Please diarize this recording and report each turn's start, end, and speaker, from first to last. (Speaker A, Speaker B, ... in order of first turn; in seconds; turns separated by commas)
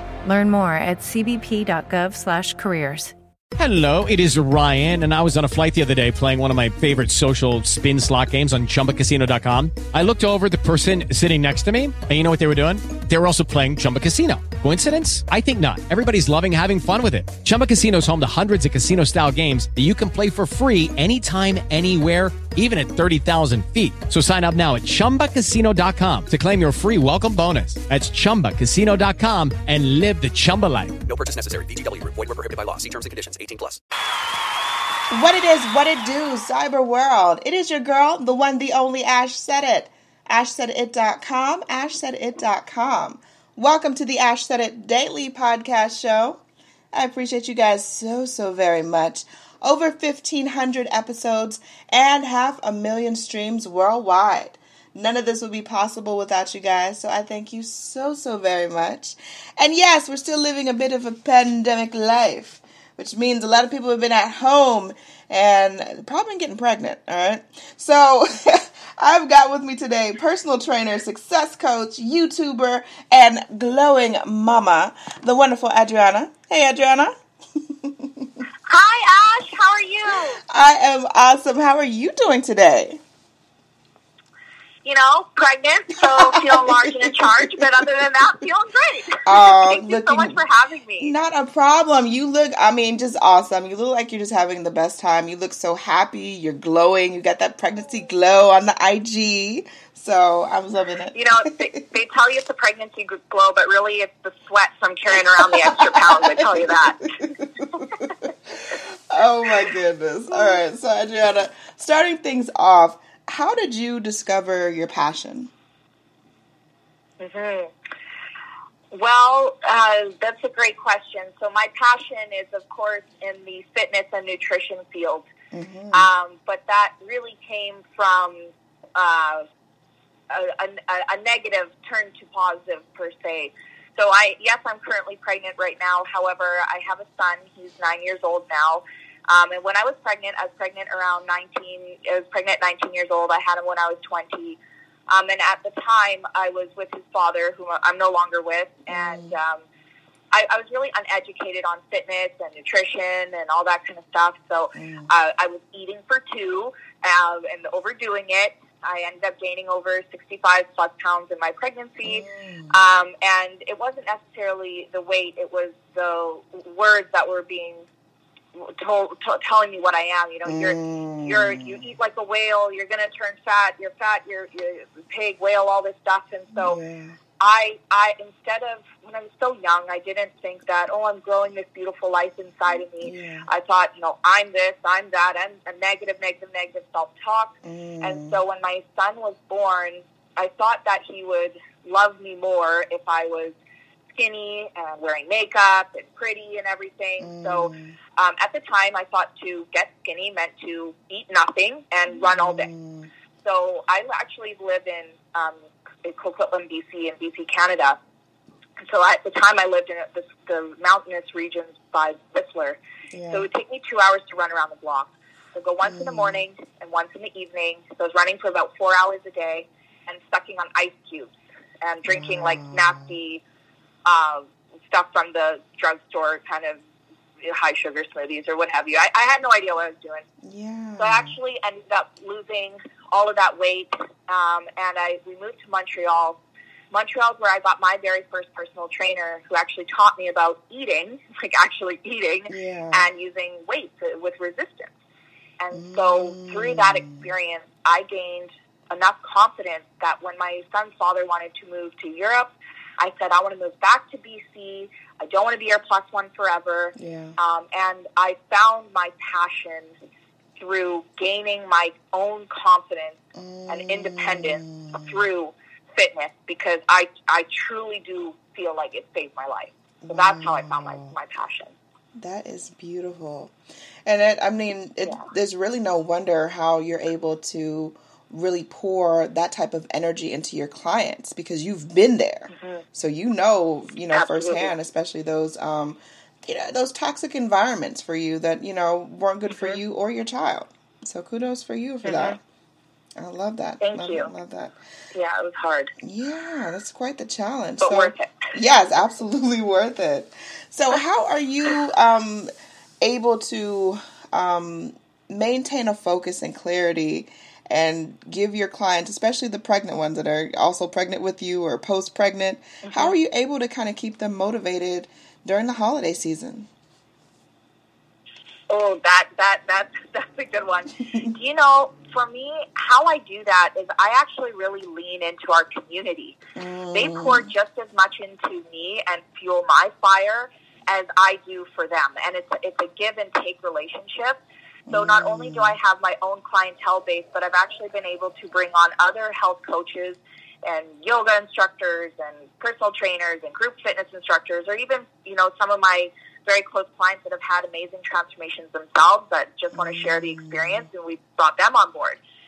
Speaker A: 0.2-3.1, Speaker B: 3.6-31.0, Speaker C: 31.0-33.8, Speaker D: 35.1-46.4, Speaker D: 46.9-77.1, Speaker D: 77.8-78.3, Speaker E: 78.7-80.4, Speaker D: 80.2-83.0, Speaker E: 84.8-91.2, Speaker D: 86.0-87.8, Speaker D: 89.2-90.4, Speaker D: 91.0-101.8, Speaker E: 101.1-107.1, Speaker D: 105.1-115.5, Speaker E: 110.3-110.6, Speaker E: 117.2-117.7, Speaker E: 118.9-125.3, Speaker D: 125.5-126.1, Speaker E: 125.9-129.5, Speaker E: 130.3-149.7, Speaker D: 148.9-149.4, Speaker E: 150.3-167.8, Speaker D: 154.8-155.1, Speaker D: 162.0-162.8, Speaker E: 168.5-176.8, Speaker D: 170.4-171.9, Speaker D: 176.5-177.2, Speaker E: 177.4-193.6, Speaker D: 183.0-183.4, Speaker D: 187.6-188.4, Speaker E: 194.1-202.7, Speaker D: 197.2-198.0, Speaker D: 202.1-203.1, Speaker E: 203.4-208.0, Speaker E: 208.8-223.4, Speaker D: 213.1-213.5, Speaker D: 215.8-216.4, Speaker D: 222.1-223.2, Speaker E: 224.1-226.8, Speaker E: 227.4-230.2, Speaker D: 230.4-231.4, Speaker E: 231.0-236.4, Speaker E: 236.9-244.9, Speaker D: 242.5-243.1, Speaker E: 245.6-259.9, Speaker D: 245.7-247.3, Speaker D: 256.9-257.4, Speaker E: 260.6-271.8, Speaker D: 263.3-265.2, Speaker D: 270.0-271.1, Speaker D: 272.1-273.5, Speaker D: 274.0-292.4, Speaker E: 275.0-275.3, Speaker E: 282.5-282.8, Speaker E: 284.1-284.7, Speaker E: 289.5-289.8, Speaker E: 292.0-292.4, Speaker D: 293.2-294.8, Speaker E: 293.8-294.3, Speaker E: 295.1-295.9, Speaker D: 296.0-302.5, Speaker E: 297.8-298.5, Speaker D: 303.0-316.7, Speaker E: 312.9-313.1, Speaker E: 318.7-326.4, Speaker D: 326.5-327.5, Speaker E: 326.9-352.2, Speaker D: 334.9-335.8, Speaker D: 349.7-350.9